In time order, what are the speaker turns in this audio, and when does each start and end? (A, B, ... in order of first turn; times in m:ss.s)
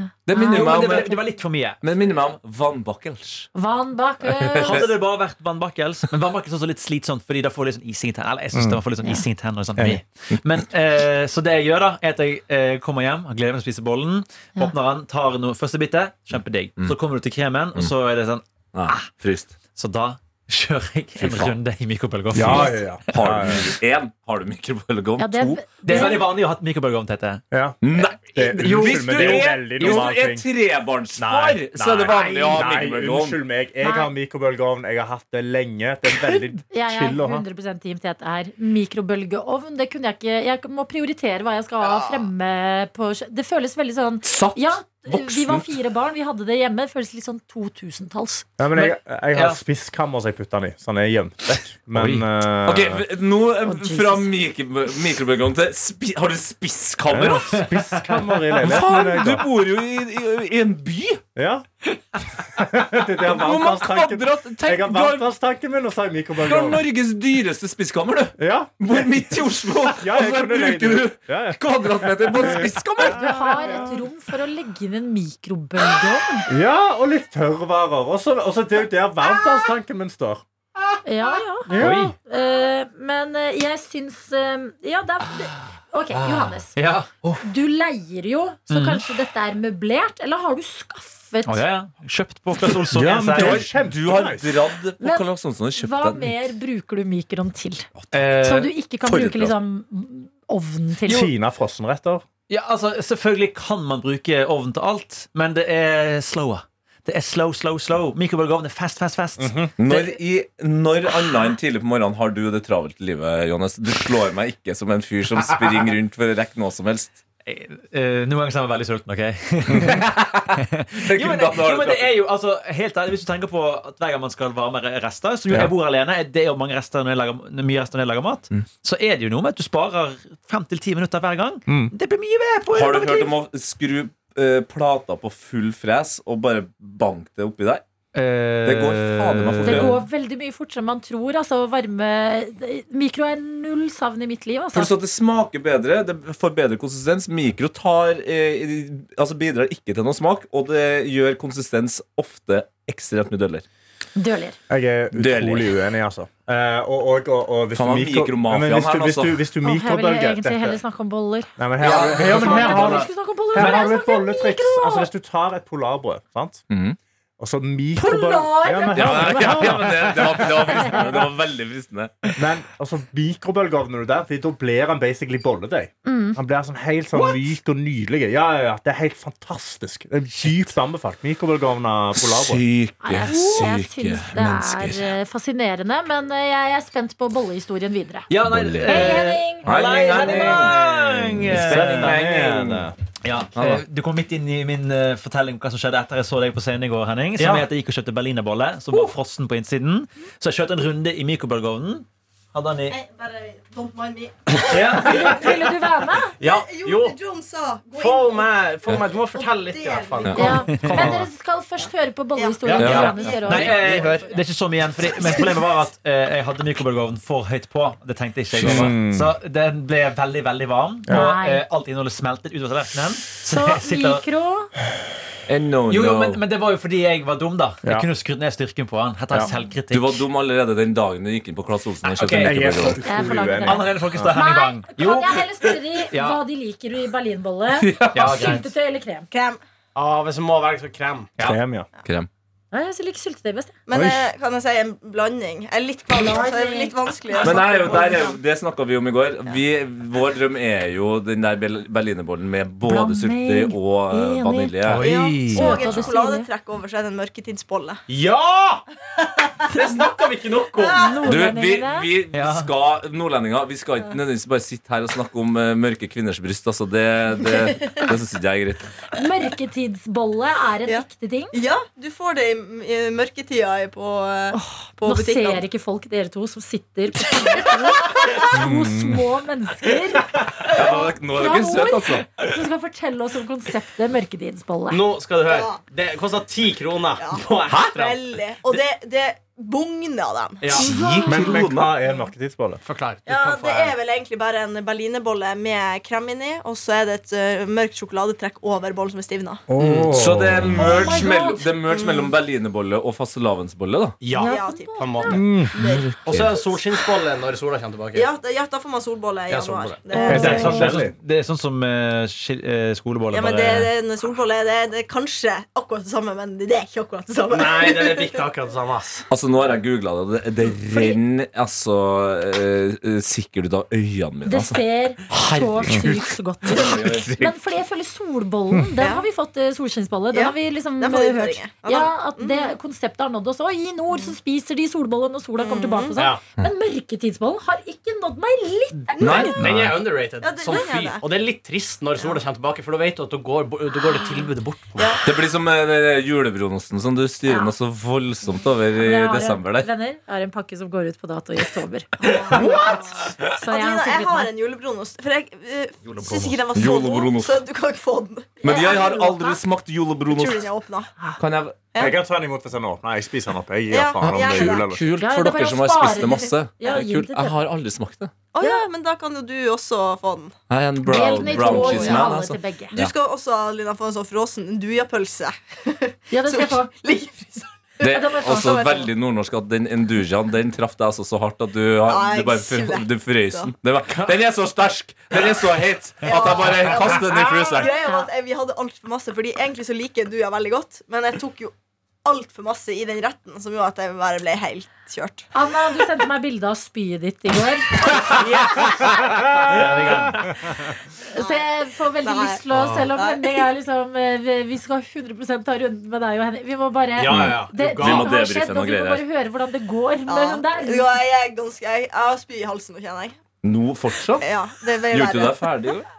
0:00.3-0:01.2 A
0:00.3-0:01.2 B
0:00.3-0:01.8 C
0:01.8-0:03.5 A
0:03.6-0:04.8 B
0:04.3-0:04.9 A
0:04.6-0:19.1 C
0:08.5-0:08.8 D
0:18.7-0:19.5 A
0:19.7-0:23.1 C
0:21.2-0:21.6 A
0:22.3-0:23.7 D
0:22.5-0:26.1 A
0:25.2-0:26.3 B
0:25.8-0:27.4 C
0:27.5-0:27.8 D
0:27.8-0:33.4 A
0:28.4-0:30.5 D
0:28.5-0:30.1 C
0:31.2-0:37.4 D
0:33.8-0:34.1 B
0:36.7-0:48.5 B
0:44.2-0:45.7 A
0:48.6-0:53.0 D
0:48.8-0:49.6 C
0:51.9-0:52.3 C
0:52.6-0:57.7 A
0:53.7-0:54.3 B
0:57.1-0:59.5 D
0:58.6-1:01.2 A
1:01.4-1:01.7 D
1:02.5-1:06.8 D
1:03.2-1:05.2 A
1:06.4-1:13.8 A
1:08.4-1:09.3 D
1:09.9-1:11.6 D
1:12.4-1:12.7 D
1:13.0-1:16.5 B
1:16.5-1:20.4 D
1:19.3-1:19.6 B
1:21.0-1:26.8 B
1:21.7-1:22.1 D
1:21.7-1:22.2 C
1:26.1-1:27.4 C
1:27.4-1:31.6 B
1:28.7-1:29.1 C
1:31.5-1:33.7 C
1:32.9-1:34.5 D
1:33.2-1:36.3 A
1:35.8-1:37.9 B
1:38.0-1:38.2 A
1:38.1-1:38.7 C
1:38.4-1:41.3 B
1:39.0-1:39.5 A
1:41.1-1:42.2 D
1:42.5-1:50.2 C
1:49.4-1:49.7 D
1:49.8-1:57.2 A
1:57.4-2:13.3 C
1:59.8-2:02.1 A
2:12.7-2:17.8 A
2:18.1-2:20.0 C
2:18.6-2:20.0 A
2:19.6-2:24.9 B
2:24.7-2:33.6 A
2:34.2-2:34.6 B
2:34.7-2:40.8 D
2:35.1-2:35.7 A
2:37.8-2:39.4 A
2:39.6-2:45.1 B
2:41.6-2:46.6 D
2:41.9-2:43.0 C
2:43.6-2:43.9 C
2:46.7-2:47.0 A
2:47.4-2:51.0 D
2:48.0-2:51.1 B
2:48.9-2:52.2 A
2:52.4-3:02.6 D
2:56.0-2:56.4 B
3:02.2-3:05.1 A
3:03.0-3:08.3 B
3:08.3-3:12.2 C
3:08.4-3:12.9 A
3:08.8-3:09.7 B
3:10.2-3:10.9 D
3:11.5-3:12.9 D
3:13.2-3:23.0 C
3:13.6-3:13.8 A
3:17.4-3:17.7 E
3:22.9-3:25.4 F
3:24.6-3:25.4 C
3:25.0-3:26.4 B
3:26.4-3:27.2 E
3:26.4-3:30.7 F
3:27.9-3:31.3 E
3:30.3-3:33.8 B
3:30.7-3:31.2 C
3:32.4-3:34.4 F
3:32.6-3:34.2 E
3:32.8-3:33.1 A
3:32.8-3:44.2 C
3:35.1-3:35.5 F
3:38.6-3:39.3 D
3:41.1-3:41.6 B
3:43.5-3:44.7 B
3:45.5-3:46.4 A
3:45.9-3:50.2 C
3:49.9-3:53.0 A
3:52.0-3:52.9 C
3:52.4-3:54.3 D
3:53.0-3:59.3 B
3:53.6-3:55.5 C
3:56.1-3:56.4 C
3:57.8-3:58.5 A
3:58.1-3:58.7 C
3:59.3-3:59.6 F
4:00.0-4:01.4 E
4:01.4-4:01.9 D
4:02.7-4:03.7 B
4:03.9-4:08.4 F
4:03.9-4:04.3 D
4:06.1-4:07.6 B
4:07.4-4:15.1 A
4:12.9-4:14.8 B
4:14.9-4:15.7 C
4:15.0-4:15.5 E
4:15.0-4:18.0 F
4:15.4-4:16.5 B
4:18.1-4:18.8 E
4:19.7-4:21.2 E
4:20.8-4:21.3 F
4:21.0-4:22.1 B
4:21.2-4:28.9 A
4:22.3-4:22.7 C
4:29.1-4:31.6 B
4:30.9-4:35.6 F
4:34.5-4:45.0 B
4:38.2-4:38.4 F
4:38.5-4:39.2 D
4:40.7-4:42.3 A
4:44.9-4:48.2 E
4:45.4-4:45.8 F
4:47.2-4:50.8 F
4:50.6-4:51.0 E
4:50.8-4:51.9 A
4:50.8-4:51.4 B
4:51.3-4:52.8 D
4:52.8-4:54.0 E
4:53.3-4:59.6 F
4:59.7-5:00.9 D
4:59.8-5:04.2 A
5:00.8-5:01.7 B
5:01.9-5:02.4 F
5:04.2-5:05.7 E
5:04.3-5:06.7 F
5:04.4-5:05.4 B
5:05.3-5:05.7 D
5:05.8-5:06.5 A
5:06.2-5:08.3 E
5:08.1-5:10.9 F
5:09.5-5:10.9 E
5:10.1-5:10.7 B
5:10.3-5:11.1 D
5:10.3-5:13.9 C
5:13.3-5:18.4 F
5:17.5-5:19.3 E
5:19.3-5:27.6 A
5:20.7-5:21.2 F
5:24.5-5:39.6 B
5:29.0-5:29.3 F
5:30.3-5:32.7 F
5:35.6-5:36.2 F
5:36.2-5:36.4 E
5:39.2-5:39.8 F
5:39.2-5:39.9 A
5:39.6-5:45.2 E
5:40.4-5:41.3 F
5:45.2-5:49.9 A
5:47.5-5:47.7 B
5:49.0-5:54.5 B
5:52.2-5:59.6 F
5:56.7-5:57.6 A
5:58.6-6:00.7 A
6:00.3-6:01.1 F
6:01.4-6:02.1 A
6:02.0-6:05.0 D
6:03.9-6:04.9 F
6:04.2-6:08.3 A
6:05.2-6:07.6 B
6:08.5-6:12.3 F
6:08.6-6:08.8 B
6:10.7-6:13.1 A
6:11.1-6:13.0 B
6:12.9-6:19.1 F
6:16.3-6:16.9 B
6:18.0-6:27.9 A
6:18.1-6:19.1 B
6:22.1-6:23.7 F
6:26.2-6:35.5 F
6:27.9-6:28.3 B
6:35.5-6:38.3 B
6:39.7-6:40.3 C
6:39.8-6:40.3 E
6:41.3-6:51.1 B
6:41.3-6:41.7 F
6:42.2-6:43.7 F
6:47.2-6:48.3 E
6:47.2-6:49.2 A
6:50.3-6:53.4 F
6:53.6-6:54.5 A
6:54.4-6:55.7 F
6:55.1-6:56.1 A